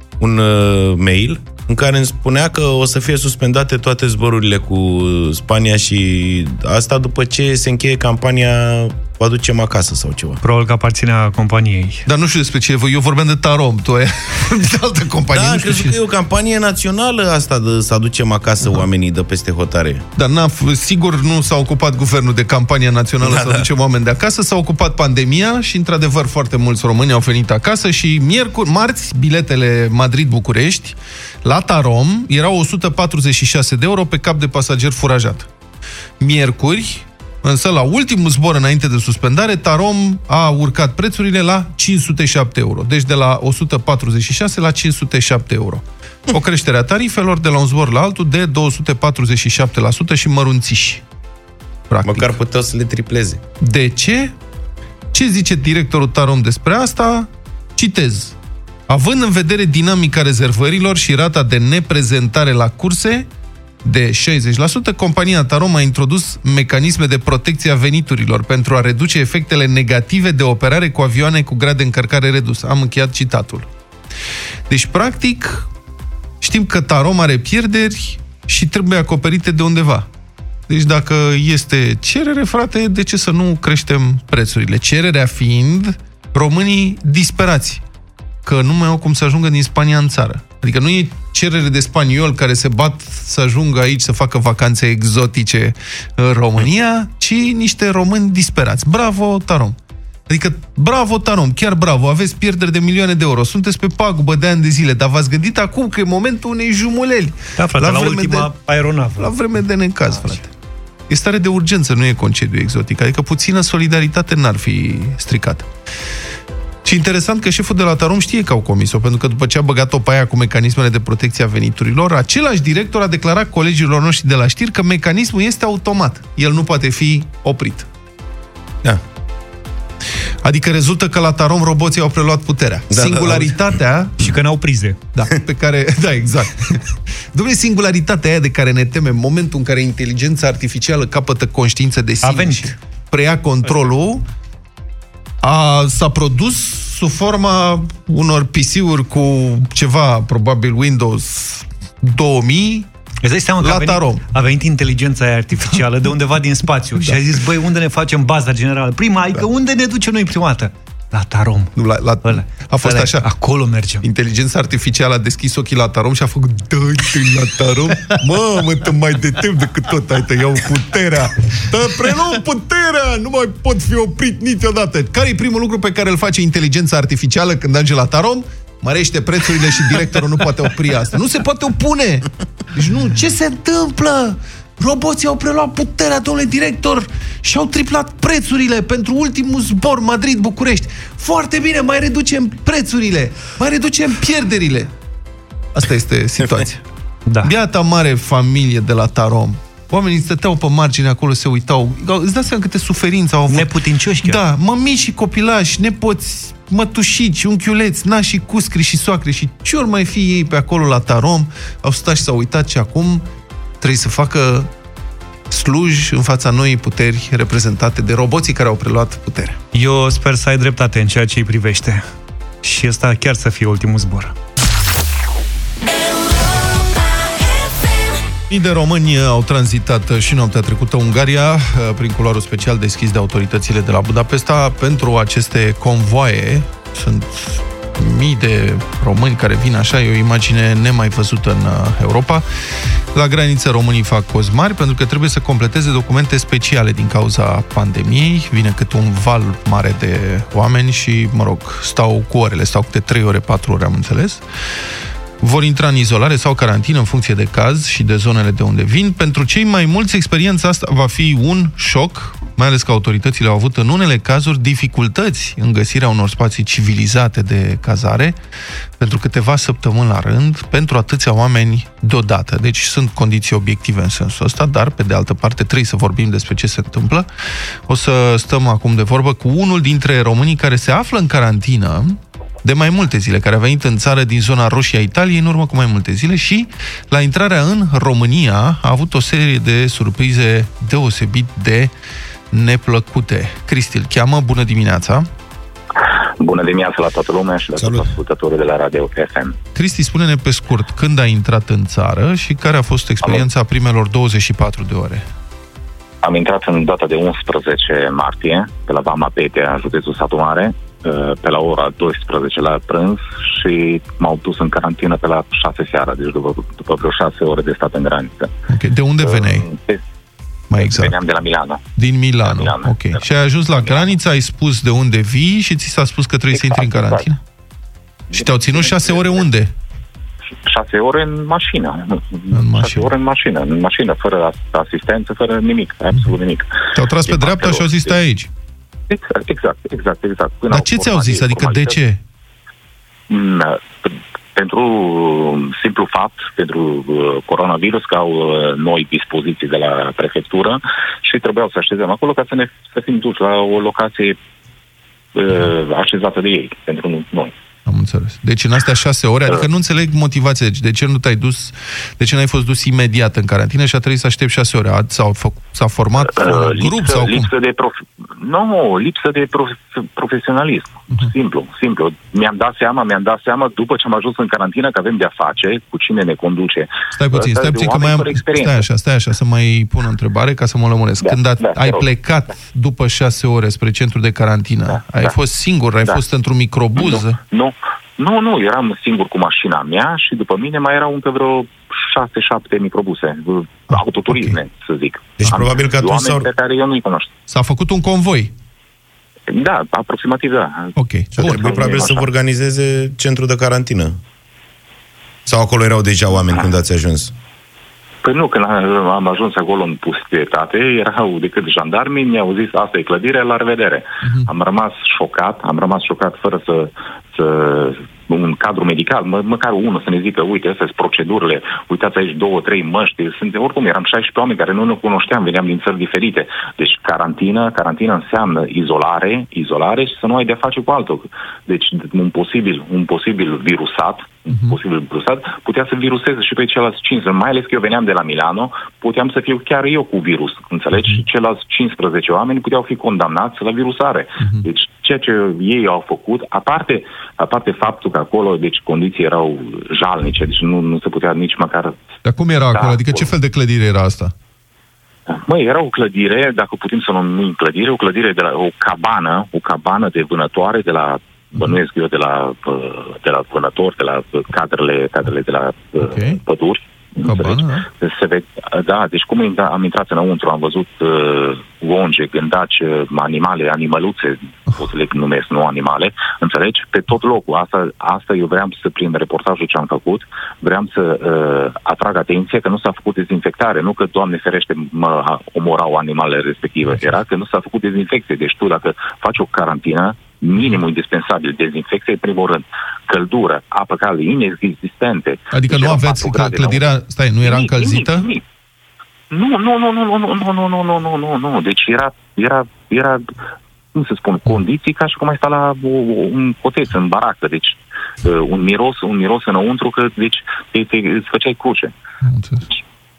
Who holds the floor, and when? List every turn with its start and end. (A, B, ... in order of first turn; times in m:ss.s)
0:00.2-0:10.4 A
0:10.4-0:12.0 B
0:12.1-0:16.0 C
0:15.3-0:20.0 A
0:20.2-0:35.5 C
0:23.2-0:23.6 A
0:36.2-0:51.0 C
0:51.9-0:52.4 C
0:52.0-0:53.4 A
0:53.6-0:54.3 C
0:55.1-0:58.4 C
0:58.9-1:03.3 C
1:03.8-1:13.7 C
1:14.7-1:15.7 C
1:16.4-1:20.1 C
1:20.7-1:27.8 C
1:28.4-1:39.8 C
1:40.3-1:48.5 C
1:47.6-1:49.3 B
1:49.2-1:50.5 C
1:51.1-1:55.7 C
1:56.8-2:07.9 C
2:10.4-2:14.2 C
2:12.9-2:13.6 A
2:14.2-2:15.0 B
2:15.2-2:24.2 C
2:22.2-2:22.8 B
2:25.4-2:32.9 C
2:33.2-2:41.7 B
2:33.6-2:34.2 C
2:41.8-2:43.3 C
2:42.2-2:44.0 B
2:44.0-3:14.9 C
3:15.7-3:16.8 C
3:17.3-3:17.5 B
3:17.4-3:23.7 C
3:23.5-3:24.4 B
3:24.2-3:33.2 C
3:33.8-3:34.7 C
3:35.5-3:39.6 C
3:39.7-3:42.0 B
3:42.6-3:44.3 B
3:48.5-4:02.4 C
4:03.1-4:14.4 C
4:15.4-4:28.4 C
4:29.0-4:37.3 C
4:37.9-4:51.9 C
4:52.5-4:55.3 C
4:56.4-4:59.6 D
4:57.8-4:58.2 A
4:59.8-5:05.3 C
5:06.2-5:18.5 D
5:18.7-5:19.7 C
5:19.2-5:20.0 D
5:20.7-5:21.2 C
5:20.8-5:21.8 D
5:22.0-5:27.4 C
5:22.4-5:23.2 D
5:23.7-5:24.1 D
5:26.6-5:27.2 D
5:28.3-5:29.4 D
5:28.3-5:29.7 C
5:30.7-5:36.7 D
5:32.5-5:33.1 C
5:37.0-5:38.5 C
5:37.2-5:38.2 D
5:39.1-5:42.0 D
5:40.7-5:42.2 C
5:43.3-5:44.0 D
5:44.6-5:54.4 D
5:55.4-5:57.5 D
5:57.9-6:07.5 C
6:06.2-6:18.9 D
6:17.1-6:27.4 C
6:21.2-6:22.0 D
6:25.0-6:25.4 D
6:27.0-6:37.3 D
6:33.9-6:34.6 C
6:35.4-6:36.5 A
6:37.5-6:38.5 C
6:39.5-6:40.9 D
6:41.0-6:42.1 C
6:41.4-6:44.2 A
6:41.5-6:42.2 D
6:45.5-6:47.3 A
6:48.2-7:32.0 D
7:14.5-7:14.8 C
7:24.4-7:24.7 C
7:32.2-7:34.3 C
7:32.7-7:33.3 D
7:35.4-8:16.8 D
7:46.0-7:46.4 C
7:47.2-7:47.9 C
8:15.5-8:18.3 C
8:17.4-8:18.4 D
8:19.3-8:23.2 D
8:24.0-8:31.9 D
8:32.2-8:32.6 C